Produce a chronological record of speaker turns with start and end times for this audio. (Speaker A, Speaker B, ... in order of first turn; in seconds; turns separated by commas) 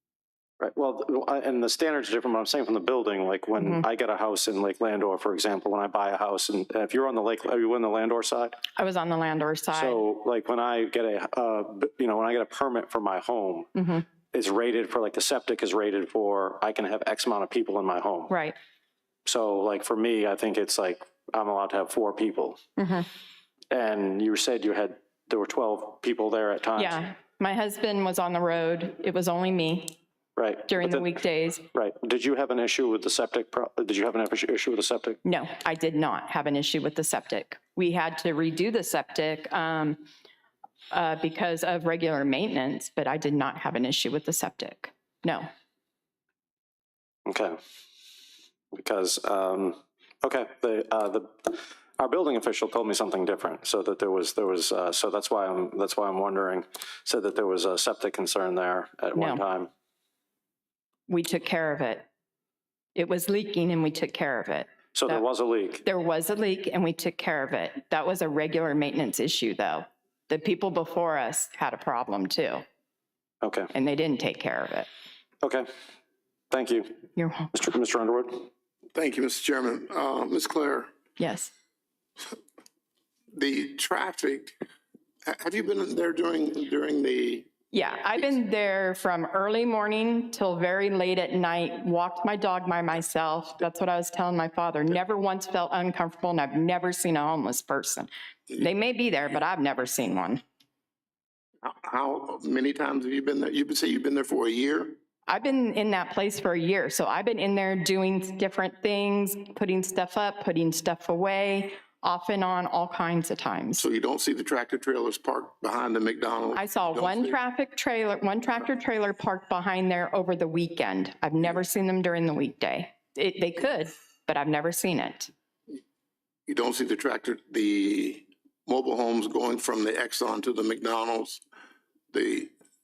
Speaker A: 0.6-8.6, Speaker B: 3.6-3.9, Speaker B: 8.8-10.0, Speaker A: 9.7-13.7, Speaker B: 13.8-14.1, Speaker A: 14.3-18.3, Speaker B: 18.3-18.6, Speaker A: 19.3-22.6, Speaker B: 22.8-23.1, Speaker A: 23.7-27.0, Speaker B: 26.8-30.0, Speaker A: 30.4-31.1, Speaker B: 30.7-31.7, Speaker A: 31.7-35.2, Speaker B: 35.2-40.1, Speaker B: 40.9-45.5, Speaker A: 47.3-47.6, Speaker A: 48.7-59.7, Speaker B: 59.2-59.4, Speaker B: 61.1-62.1, Speaker B: 63.0-65.3, Speaker A: 64.9-65.8, Speaker B: 65.8-72.6, Speaker A: 73.4-73.7, Speaker B: 73.7-74.9, Speaker A: 76.5-76.9, Speaker B: 77.2-77.5, Speaker A: 77.5-78.5, Speaker C: 78.9-80.9, Speaker B: 81.2-81.5, Speaker C: 83.3-84.5, Speaker C: 85.3-87.5, Speaker B: 87.7-100.4, Speaker C: 101.6-105.0, Speaker B: 105.3-113.9, Speaker C: 113.8-117.4, Speaker B: 116.5-125.3, Speaker C: 126.5-131.4, Speaker C: 132.1-132.5